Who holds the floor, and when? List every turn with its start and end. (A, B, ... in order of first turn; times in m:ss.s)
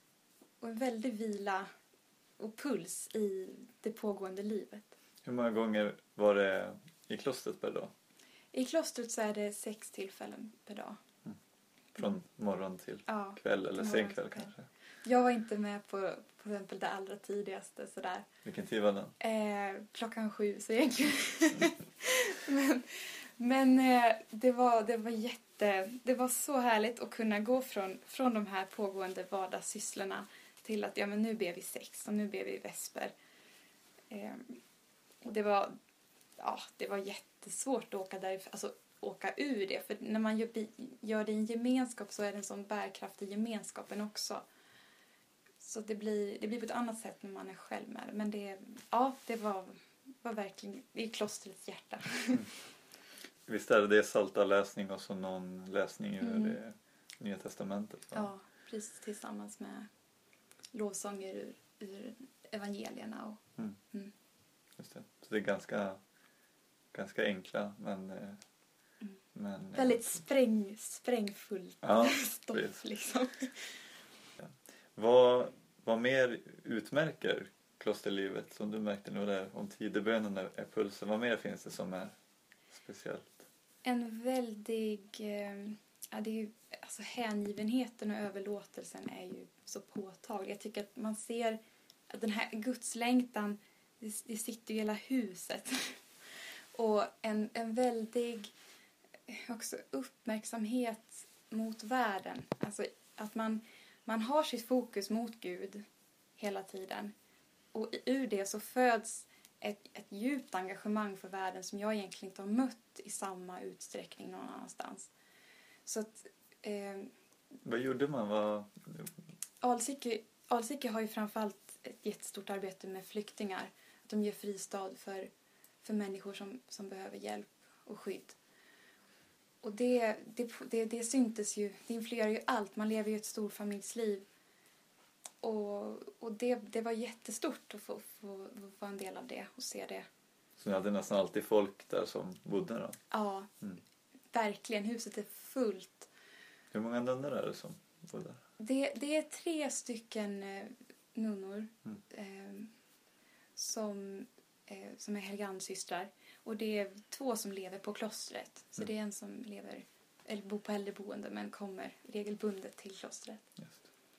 0:00.6-0:01.7 A
0:02.4-0:04.9 A
0:05.2-0:07.9 B
0:08.5-0:11.0 A
0:11.9-0:14.7 B
0:13.1-0:14.5 A
0:15.0-0:18.2 A
0:18.4-0:19.1 B
0:19.2-0:33.1 A
0:34.1-0:34.6 A
0:35.2-0:35.7 A
0:36.4-0:44.4 A
0:45.6-0:52.5 A
0:53.5-0:58.3 B
0:56.2-0:56.6 A
0:58.1-0:59.9 A
1:00.7-1:03.4 A
1:04.8-1:06.0 B
1:06.9-1:08.4 B
1:09.3-1:10.0 B
1:09.7-1:13.6 A
1:11.8-1:12.8 B
1:14.4-1:22.1 B
1:22.7-1:23.4 B
1:23.8-1:31.6 A
1:32.1-1:36.0 A
1:36.7-1:38.5 A
1:39.3-1:45.8 A
1:46.4-1:47.1 A
1:47.7-1:55.1 A
1:55.8-1:57.1 A
1:57.6-1:59.1 B
1:59.6-2:05.3 A
2:05.8-2:08.4 A
2:09.6-2:14.2 A
2:15.4-2:20.0 A
2:20.6-2:23.0 B
2:23.1-2:23.5 A
2:24.3-2:26.1 A
2:26.7-2:28.4 B
2:28.6-2:32.7 A
2:33.6-2:43.4 A